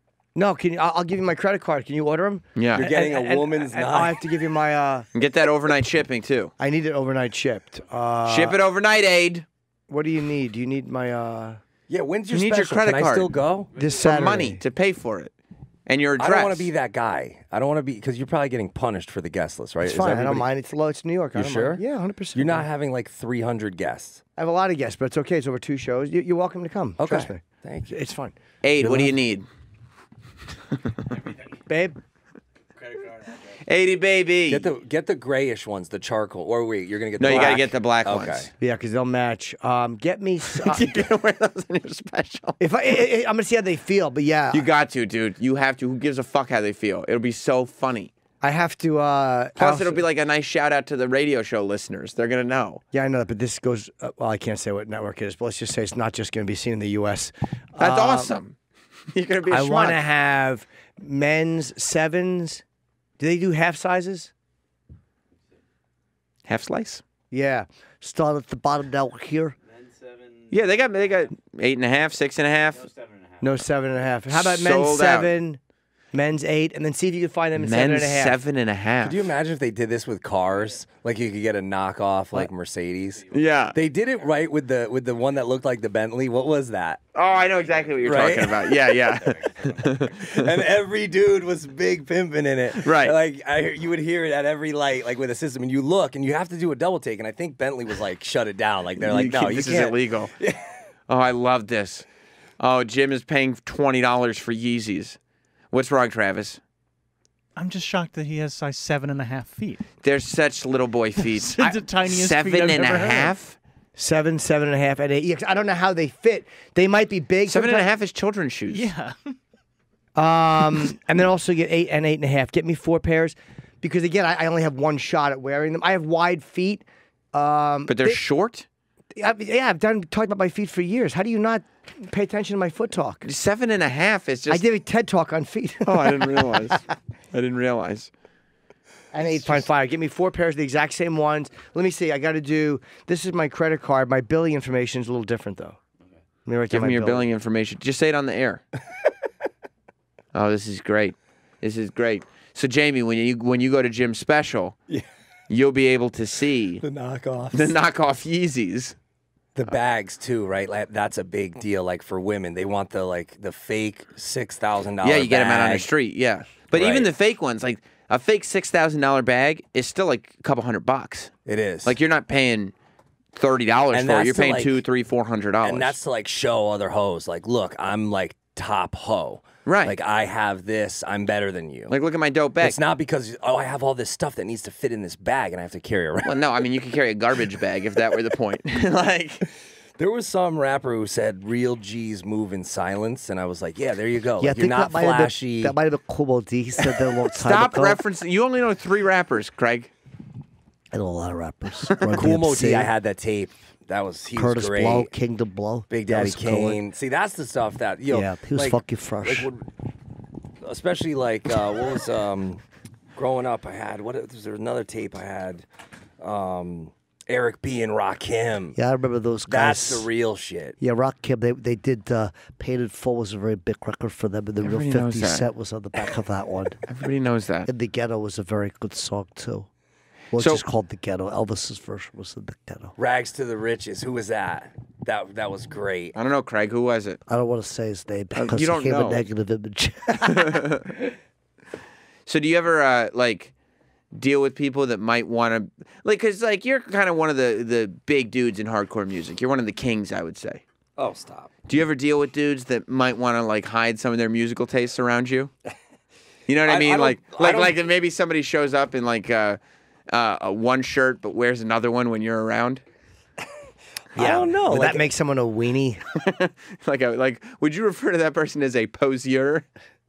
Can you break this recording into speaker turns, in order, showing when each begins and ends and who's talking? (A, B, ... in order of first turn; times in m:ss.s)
0:00.4-0:05.1 A
0:02.6-0:02.9 B
0:02.7-0:04.2 C
0:05.2-0:06.5 B
0:06.6-0:08.6 A
0:08.3-0:09.4 B
0:09.9-0:11.6 A
0:11.9-0:13.7 C
0:12.3-0:13.3 B
0:13.8-0:14.1 D
0:13.8-0:14.6 A
0:13.9-0:15.3 B
0:15.9-0:16.7 B
0:16.2-0:20.5 C
0:19.8-0:22.6 A
0:21.4-0:21.8 C
0:22.3-0:24.2 C
0:24.4-0:28.3 A
0:27.0-0:28.0 C
0:28.6-0:29.5 B
0:28.8-0:29.1 C
0:31.1-0:31.5 D
0:31.7-0:32.0 A
0:32.8-0:33.6 D
0:33.6-0:34.7 B
0:34.5-0:38.5 C
0:37.2-0:38.5 B
0:38.6-0:41.1 A
0:40.5-0:42.6 B
0:42.6-0:44.7 A
0:44.5-0:48.1 B
0:48.4-0:50.0 A
0:49.6-0:52.8 B
0:52.9-0:58.4 A
0:57.8-0:58.6 B
0:59.1-1:00.0 B
0:59.5-1:02.6 A
1:03.2-1:04.3 A
1:06.5-1:07.0 B
1:07.3-1:09.6 A
1:09.7-1:11.4 D
1:10.5-1:12.8 B
1:12.7-1:13.7 D
1:13.4-1:15.6 A
1:14.3-1:15.3 B
1:16.1-1:18.4 A
1:17.6-1:19.2 B
1:19.0-1:27.0 C
1:20.5-1:20.8 D
1:23.1-1:23.5 D
1:23.3-1:23.8 B
1:27.2-1:30.5 B
1:27.2-1:30.1 D
1:28.0-1:29.1 C
1:29.8-1:40.7 C
1:32.8-1:33.2 B
1:39.0-1:40.3 B
1:41.1-1:42.1 B
1:42.6-1:45.2 B
1:45.7-1:46.6 B
1:47.6-1:49.9 E
1:50.0-1:53.6 B
1:51.2-1:53.4 E
1:54.0-1:57.9 A
1:57.5-1:58.9 B
1:58.7-1:59.2 E
2:00.2-2:08.2 A
2:07.9-2:08.7 B
2:09.2-2:13.3 A
2:13.2-2:14.6 B
2:14.5-2:16.8 A
2:15.8-2:16.8 B
2:17.3-2:18.1 B
2:19.1-2:25.8 A
2:26.5-2:27.3 A
2:26.7-2:28.6 B
2:30.3-2:34.8 B
2:35.5-2:36.8 B
2:36.8-2:37.8 C
2:37.5-2:39.0 B
2:39.6-2:45.9 C
2:45.0-2:51.3 B
2:46.7-2:47.1 C
2:51.4-2:52.0 C
2:51.8-2:52.7 B
2:53.3-2:56.0 B
2:53.9-2:54.8 C
2:55.6-3:01.9 C
2:59.7-3:00.0 B
3:01.9-3:02.8 B
3:02.6-3:06.4 C
3:06.2-3:09.4 B
3:10.0-3:15.8 C
3:14.4-3:17.9 A
3:17.3-3:18.0 F
3:17.4-3:19.9 B
3:20.9-3:22.5 F
3:20.9-3:22.9 A
3:22.1-3:25.1 C
3:24.4-3:26.8 A
3:24.5-3:25.6 F
3:25.9-3:29.8 C
3:28.1-3:29.5 A
3:28.6-3:29.0 F
3:30.6-3:32.6 C
3:33.2-3:35.7 C
3:36.2-3:38.8 C
3:38.8-3:39.9 A
3:38.9-3:39.9 F
3:39.5-3:40.8 C
3:40.8-3:46.8 A
3:40.8-3:46.3 F
3:44.6-3:45.5 B
3:46.9-3:47.7 B
3:47.7-3:49.4 F
3:47.7-3:49.6 A
3:50.4-3:52.7 F
3:50.4-3:50.6 B
3:50.4-3:52.9 A
3:53.0-3:56.2 C
3:56.2-3:57.2 B
3:57.3-3:59.7 A
3:57.3-4:00.1 F
3:58.3-3:59.2 B
4:00.2-4:00.9 B
4:02.3-4:03.5 B
4:04.1-4:10.6 B
4:11.0-4:11.5 C
4:11.7-4:15.5 B
4:16.5-4:22.8 B
4:16.6-4:17.8 C
4:24.2-4:25.1 C
4:24.2-4:26.0 A
4:26.2-4:29.7 B